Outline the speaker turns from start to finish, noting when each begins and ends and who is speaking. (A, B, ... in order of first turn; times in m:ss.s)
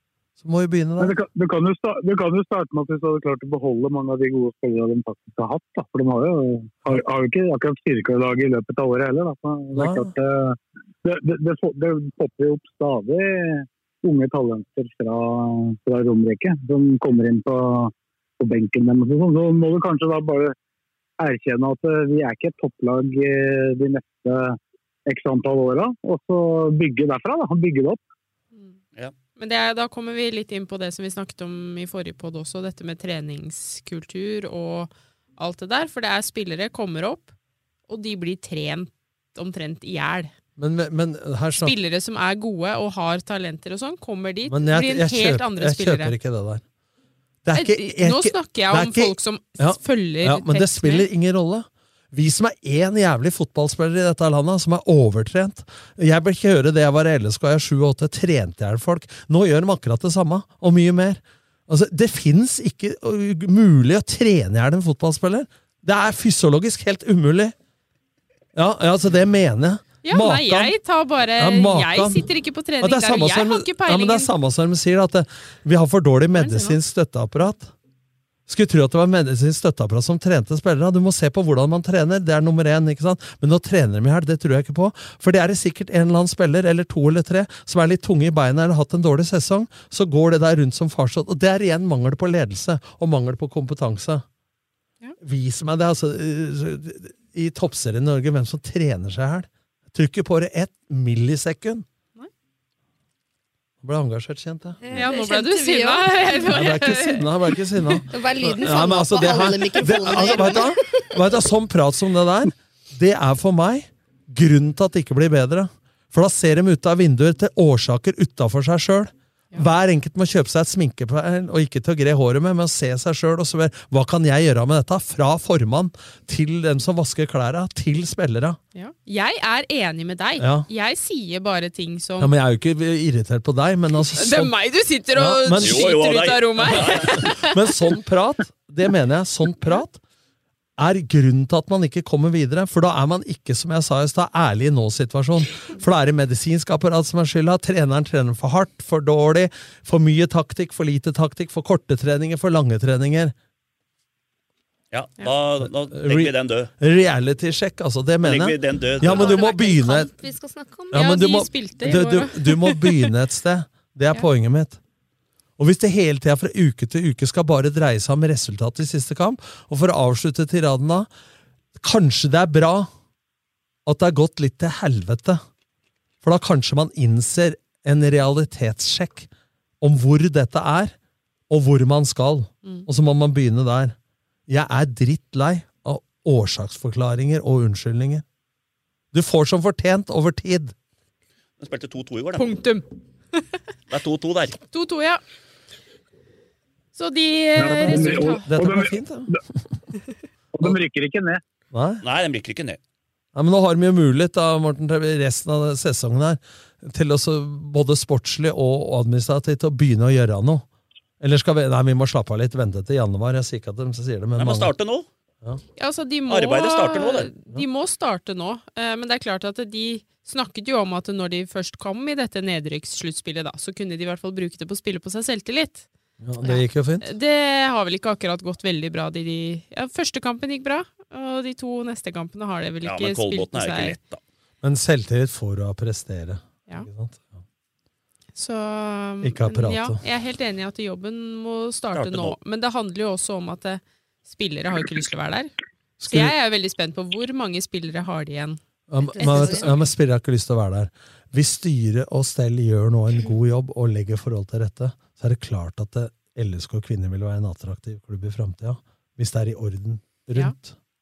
0:00.4-0:01.2 A
0:01.0-0:20.6 B
0:09.8-0:10.1 A
0:21.2-0:28.0 B
0:29.4-0:37.3 C
0:37.9-0:40.3 C
0:40.6-0:41.8 A
0:41.6-0:46.1 C
0:44.5-0:46.6 A
0:47.4-1:07.6 A
0:47.6-0:51.1 C
1:08.6-1:10.8 A
1:10.0-1:14.3 C
1:11.4-1:12.3 A
1:12.8-1:17.7 A
1:16.3-1:16.8 C
1:18.5-1:34.2 A
1:35.2-1:41.8 A
1:43.8-1:44.8 A
1:44.8-1:46.8 D
1:44.9-1:47.3 C
1:46.5-2:08.6 A
1:48.0-1:51.2 D
1:50.1-1:50.4 C
2:08.8-2:12.3 C
2:10.4-2:10.7 A
2:12.2-2:14.6 A
2:14.2-2:17.6 C
2:15.1-2:15.9 A
2:15.6-2:17.3 E
2:16.7-2:20.0 A
2:20.8-2:33.3 A
2:34.9-2:36.7 E
2:35.6-2:40.1 A
2:38.2-2:39.4 E
2:39.0-2:41.0 D
2:40.9-2:44.8 A
2:40.9-2:43.1 C
2:45.6-2:51.1 A
2:51.8-2:52.9 A
2:53.9-2:55.4 A
2:56.2-2:59.3 A
2:59.8-3:01.0 A
3:01.5-3:04.0 A
3:04.5-3:08.2 A
3:09.1-3:10.8 A
3:11.6-3:12.6 E
3:12.4-3:13.6 C
3:13.9-3:14.6 E
3:14.7-3:15.2 C
3:17.0-3:18.5 C
3:17.6-3:19.4 B
3:17.6-3:19.3 A
3:20.5-3:21.4 B
3:21.7-3:22.0 A
3:22.0-3:22.8 E
3:23.4-3:30.7 A
3:31.2-3:34.7 A
3:34.4-3:35.1 E
3:35.8-3:45.9 C
3:36.3-3:37.3 E
3:46.2-3:47.1 A
3:46.4-3:54.0 C
3:52.8-3:54.2 E
3:54.6-3:57.4 A
3:58.4-4:05.5 C
3:59.2-4:00.0 A
4:02.0-4:02.3 E
4:06.0-4:06.3 A
4:06.0-4:08.6 C
4:08.9-4:20.8 A
4:09.1-4:09.7 D
4:09.2-4:09.9 C